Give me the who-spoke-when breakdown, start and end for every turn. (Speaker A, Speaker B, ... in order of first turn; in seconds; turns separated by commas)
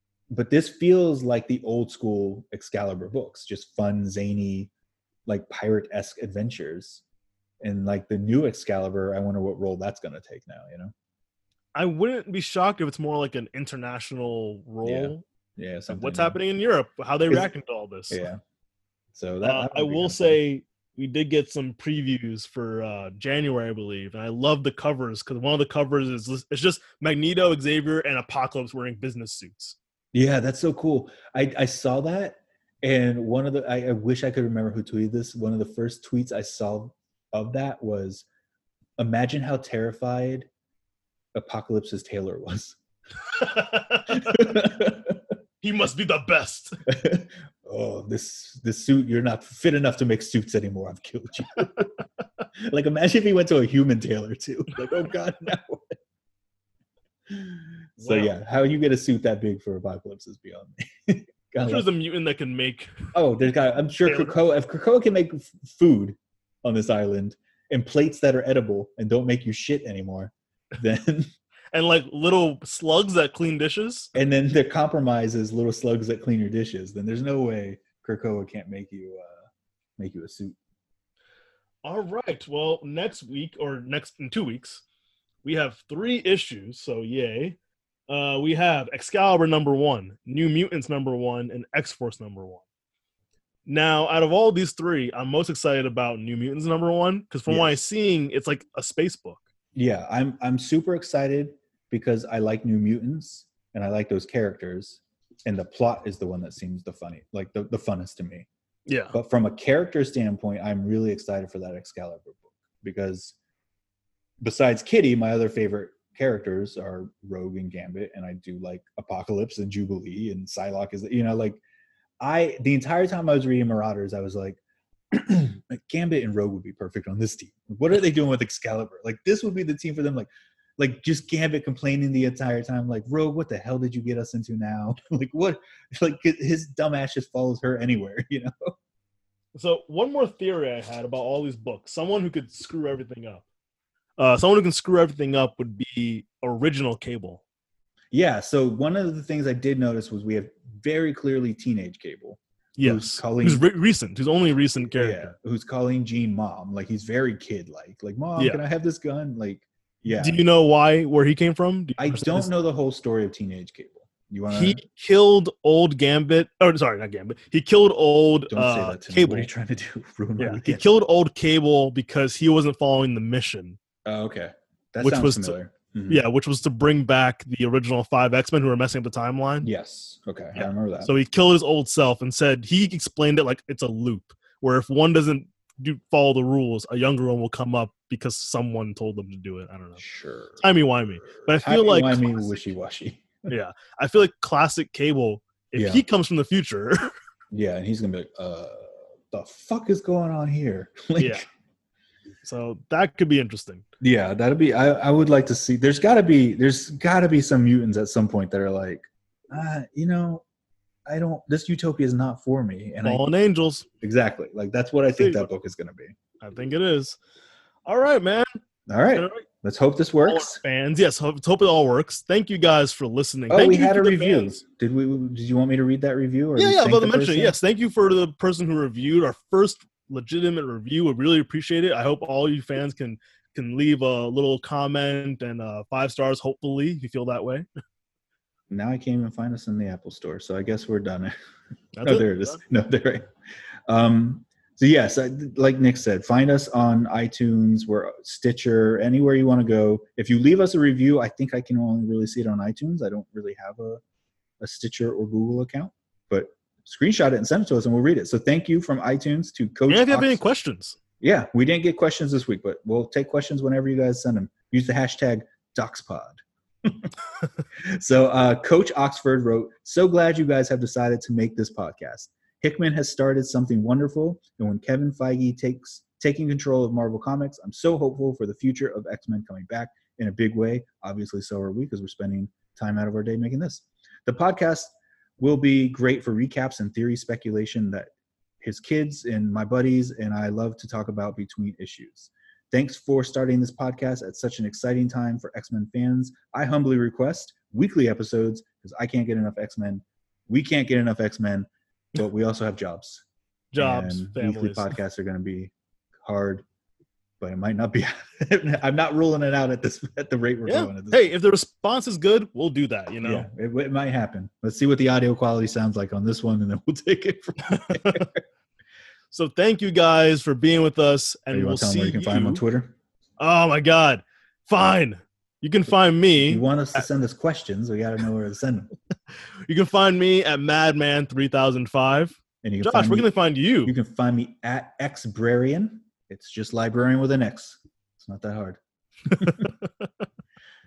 Speaker A: 0.3-4.7, Speaker A: 5.3-7.0, Speaker A: 7.6-10.9, Speaker B: 11.8-15.2, Speaker A: 14.8-16.4, Speaker B: 15.9-18.2, Speaker A: 18.1-18.4, Speaker A: 19.1-20.4, Speaker B: 19.4-29.8, Speaker A: 30.1-38.3, Speaker A: 39.0-40.5, Speaker A: 41.4-42.8, Speaker B: 43.4-44.4, Speaker A: 44.1-45.2, Speaker B: 45.6-46.8, Speaker A: 46.9-51.9, Speaker A: 52.6-56.0, Speaker A: 57.3-61.9, Speaker B: 58.0-58.3, Speaker B: 61.6-62.9, Speaker A: 63.1-71.3, Speaker B: 64.1-64.4, Speaker B: 71.7-74.1, Speaker A: 74.2-79.4, Speaker A: 80.0-80.6, Speaker B: 81.8-84.8, Speaker B: 85.4-87.6, Speaker B: 88.1-92.6, Speaker B: 93.7-99.4, Speaker A: 97.5-97.8, Speaker A: 99.8-108.5, Speaker B: 108.9-109.2, Speaker A: 109.1-113.4, Speaker A: 114.4-121.6, Speaker A: 122.2-124.6, Speaker A: 125.1-138.7, Speaker B: 139.6-143.4, Speaker B: 144.2-147.4, Speaker A: 148.1-153.6, Speaker B: 152.8-155.3, Speaker A: 154.9-160.4, Speaker B: 160.1-162.5, Speaker A: 162.0-164.8, Speaker B: 164.5-169.5, Speaker A: 168.5-170.9, Speaker B: 170.4-173.8, Speaker A: 174.1-176.2, Speaker B: 175.0-175.6, Speaker B: 176.1-179.7, Speaker A: 179.6-181.1, Speaker B: 180.6-190.0, Speaker A: 190.0-190.7, Speaker B: 190.6-192.5, Speaker A: 191.3-193.4, Speaker B: 193.5-197.1, Speaker A: 195.8-196.1, Speaker A: 197.5-201.4, Speaker B: 201.2-201.4, Speaker B: 202.4-203.8, Speaker A: 204.0-210.4, Speaker A: 211.1-213.3, Speaker B: 213.0-213.9, Speaker A: 214.0-216.2, Speaker B: 215.2-215.5, Speaker B: 216.4-217.2, Speaker B: 217.9-218.5, Speaker A: 218.9-220.6, Speaker B: 219.2-219.4, Speaker B: 220.2-224.6, Speaker A: 223.5-227.6, Speaker B: 226.6-237.7, Speaker A: 238.7-241.3, Speaker B: 241.9-242.6, Speaker A: 242.0-243.3, Speaker A: 243.9-254.0, Speaker A: 254.6-260.4, Speaker B: 259.9-261.0, Speaker A: 261.2-267.1, Speaker A: 267.8-303.2, Speaker B: 303.7-304.9, Speaker A: 303.8-306.6, Speaker A: 307.4-311.3, Speaker B: 310.7-313.5, Speaker A: 313.2-318.4, Speaker B: 317.8-318.3, Speaker B: 319.3-322.6, Speaker A: 321.5-322.9, Speaker B: 323.4-327.1, Speaker A: 326.4-328.9, Speaker B: 329.7-333.9, Speaker A: 332.6-333.3, Speaker A: 333.8-338.8, Speaker A: 339.3-339.7, Speaker B: 339.3-339.9